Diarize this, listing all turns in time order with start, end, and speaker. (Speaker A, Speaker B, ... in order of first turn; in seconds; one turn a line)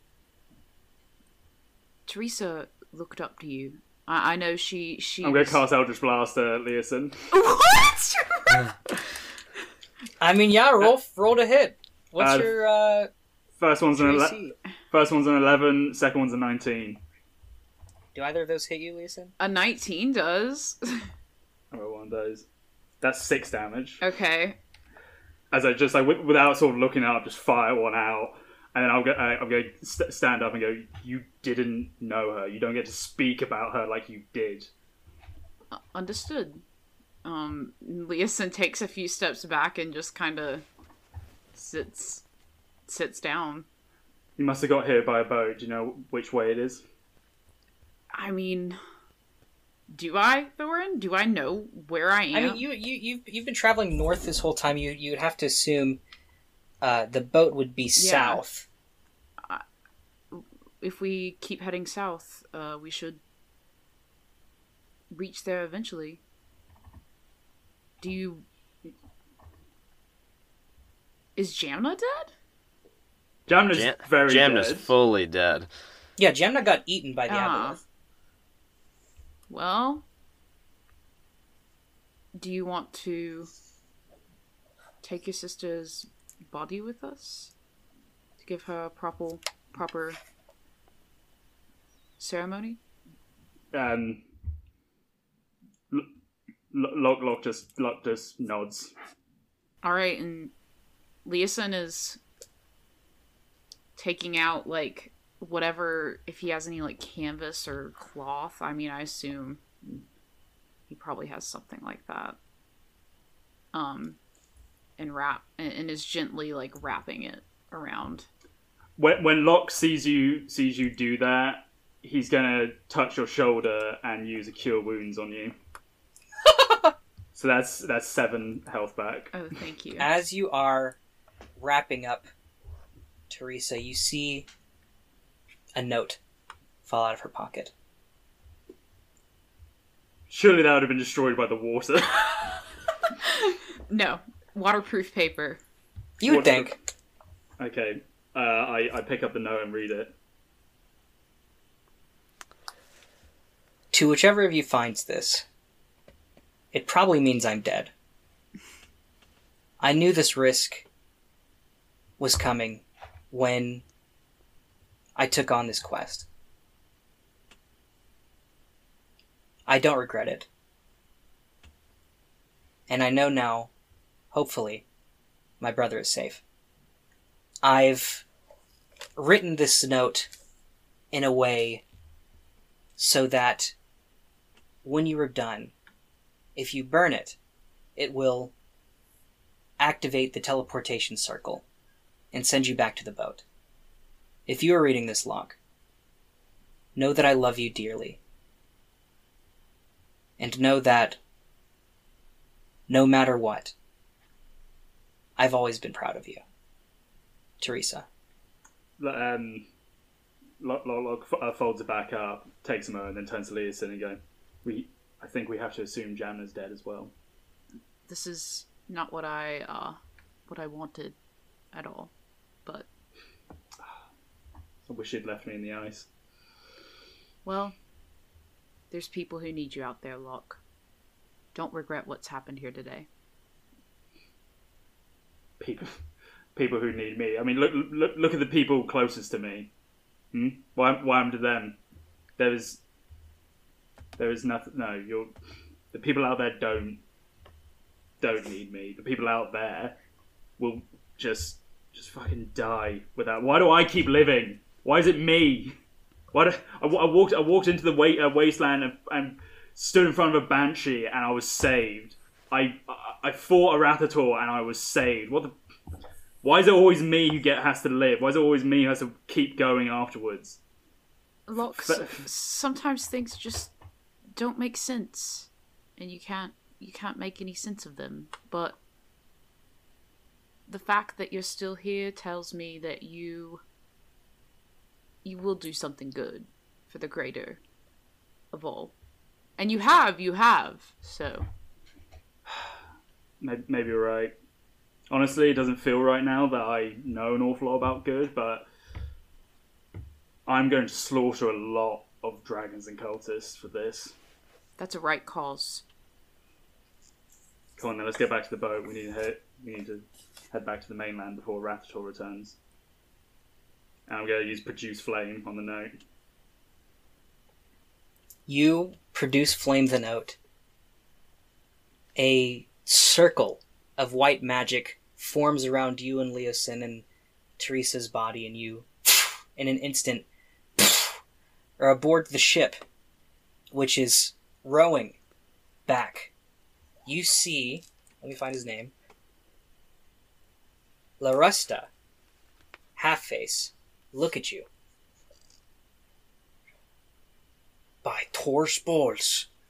Speaker A: 2.1-5.6
Speaker B: 5.2-7.2
Speaker A: 7.3-8.6
Speaker C: 10.2-13.1
Speaker B: 12.2-12.5
Speaker B: 13.6-14.4
Speaker C: 13.9-14.5
Speaker B: 14.9-17.0
Speaker C: 18.1-19.3
Speaker A: 19.4-21.1
Speaker B: 21.7-22.4
Speaker B: 23.0-24.0
Speaker A: 24.0-24.6
Speaker B: 25.5-34.7
Speaker A: 35.7-36.6
Speaker A: 37.2-40.6
Speaker A: 41.5-42.2
Speaker A: 42.9-43.7
Speaker B: 44.4-46.8
Speaker A: 48.1-48.8
Speaker A: 49.9-52.6
Speaker C: 52.3-56.0
Speaker C: 56.8-58.7
Speaker A: 58.0-58.4
Speaker A: 60.3-63.2
Speaker A: 65.1-66.2
Speaker A: 68.0-68.5
Speaker A: 71.3-72.3
Speaker B: 73.5-74.9
Speaker D: 73.7-75.7
Speaker C: 76.2-77.8
Speaker A: 77.3-77.8
Speaker A: 79.5-80.0
Speaker A: 82.3-83.5
Speaker A: 85.0-87.5
Speaker A: 88.4-90.2
Speaker A: 92.2-92.8
Speaker B: 93.7-94.2
Speaker B: 96.7-98.9
Speaker A: 99.8-100.5
Speaker A: 101.2-102.2
Speaker A: 104.0-109.6
Speaker A: 110.9-112.4
Speaker A: 113.7-114.2
Speaker A: 115.0-118.3
Speaker B: 119.0-125.5
Speaker B: 127.3-129.3
Speaker A: 129.3-130.1
Speaker C: 130.0-131.0
Speaker C: 131.6-132.3
Speaker C: 133.3-134.5
Speaker C: 135.8-136.2
Speaker C: 136.8-137.7
Speaker B: 140.3-142.3
Speaker A: 143.2-145.6
Speaker C: 146.2-146.8
Speaker B: 146.2-146.7
Speaker B: 147.6-150.1
Speaker C: 153.9-155.4
Speaker C: 156.7-157.9
Speaker C: 159.8-160.8
Speaker C: 162.2-163.8
Speaker C: 165.2-166.3
Speaker C: 169.7-170.5
Speaker C: 172.9-173.7
Speaker C: 174.3-174.8
Speaker C: 175.6-176.4
Speaker C: 177.6-178.2
Speaker C: 179.2-180.3
Speaker C: 181.1-181.8
Speaker C: 183.0-183.7
Speaker C: 184.8-185.7
Speaker C: 186.6-187.4
Speaker C: 187.9-188.5
Speaker C: 189.8-191.6
Speaker C: 192.3-193.4
Speaker C: 194.5-195.6
Speaker C: 196.9-198.2
Speaker C: 200.4-201.2
Speaker C: 202.9-203.7
Speaker C: 205.4-206.4
Speaker C: 207.6-208.1
Speaker B: 209.0-209.7
Speaker B: 210.6-217.1
Speaker A: 218.1-221.2
Speaker A: 221.7-222.1
Speaker B: 224.8-226.1
Speaker A: 227.4-227.8
Speaker A: 228.9-230.6
Speaker A: 231.5-233.1
Speaker B: 235.6-236.0
Speaker B: 236.5-239.7
Speaker B: 240.3-241.8
Speaker B: 242.4-242.8
Speaker B: 244.2-245.3
Speaker B: 245.9-247.0
Speaker B: 248.2-250.0
Speaker B: 250.6-255.7
Speaker B: 256.3-265.6
Speaker B: 266.4-270.6
Speaker A: 271.5-273.7
Speaker B: 271.8-272.2
Speaker A: 274.4-278.8
Speaker A: 280.7-283.6
Speaker A: 285.2-287.6
Speaker A: 288.5-288.9
Speaker A: 289.6-291.5
Speaker B: 292.5-292.8
Speaker B: 293.4-294.3
Speaker B: 295.1-298.7
Speaker B: 300.4-304.1
Speaker A: 304.8-305.8
Speaker B: 307.8-312.6
Speaker B: 314.1-315.9
Speaker C: 318.5-320.4
Speaker C: 322.2-327.0
Speaker C: 327.6-330.2
Speaker C: 330.8-331.2
Speaker C: 331.8-332.8
Speaker C: 333.7-335.2
Speaker C: 335.9-336.3
Speaker C: 337.1-338.9
Speaker C: 341.2-341.9
Speaker C: 342.9-344.7
Speaker C: 348.0-349.5